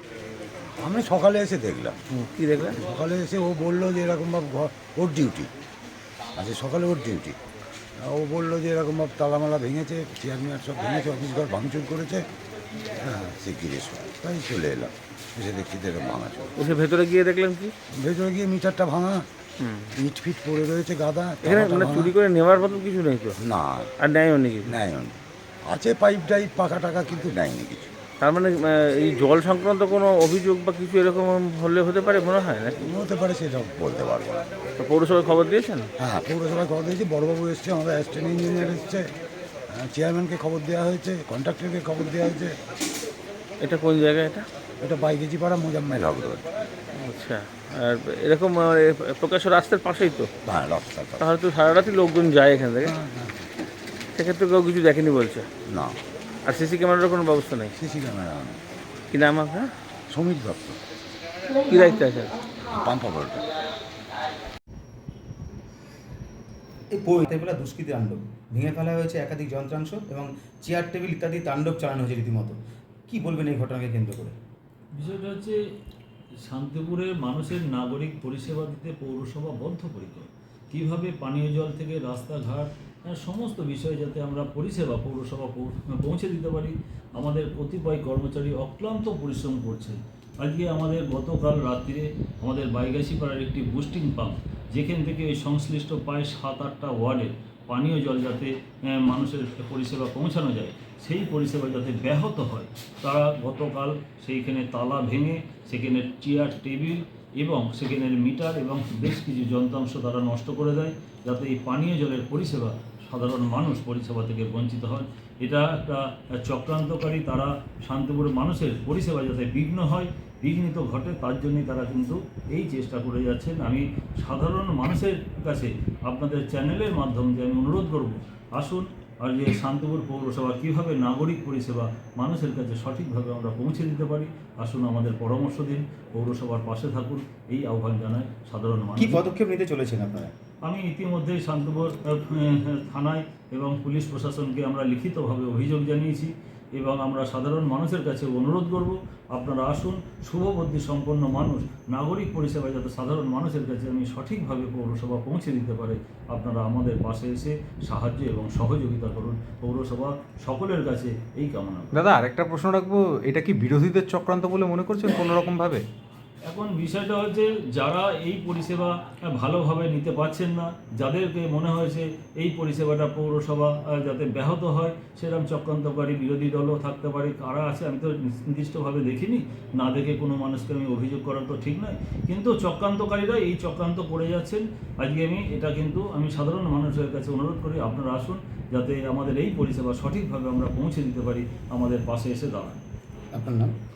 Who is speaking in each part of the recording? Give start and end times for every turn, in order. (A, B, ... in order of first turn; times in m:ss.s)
0:00.8-0:02.0 A
0:02.1-0:02.8 B
0:02.6-0:05.5 A
0:06.4-0:07.4 A
0:08.0-0:12.2 A
0:13.0-0:16.7 A
0:16.6-0:17.7 B
0:18.0-0:19.2 A
0:19.6-0:19.9 B
0:20.0-0:22.1 A
0:21.4-0:23.4 B
0:23.4-0:23.9 A
0:24.0-0:24.8 B
0:24.6-0:27.9 A
0:28.2-0:32.8 B
0:32.8-0:34.5 A
0:34.8-0:35.9 B
0:36.0-0:39.0 A
0:39.7-0:42.6 A
0:43.6-0:44.5 B
0:44.8-0:46.5 A
0:46.9-0:50.3 B
0:50.4-0:51.2 A
0:51.2-0:52.9 B
0:52.8-0:53.5 A
0:54.1-0:55.5 B
0:55.7-0:56.0 A
0:56.4-0:57.7 B
0:57.8-0:58.6 A
0:59.1-0:59.7 B
1:00.1-1:00.8 A
1:01.7-1:02.3 B
1:02.6-1:03.5 A
1:06.9-1:14.4 C
1:14.9-1:15.6 D
1:16.4-2:19.3 D
2:19.0-2:20.3 C
2:20.6-2:42.2 D
2:41.9-2:45.8 E
2:46.5-3:12.8 D
3:13.3-3:13.7 C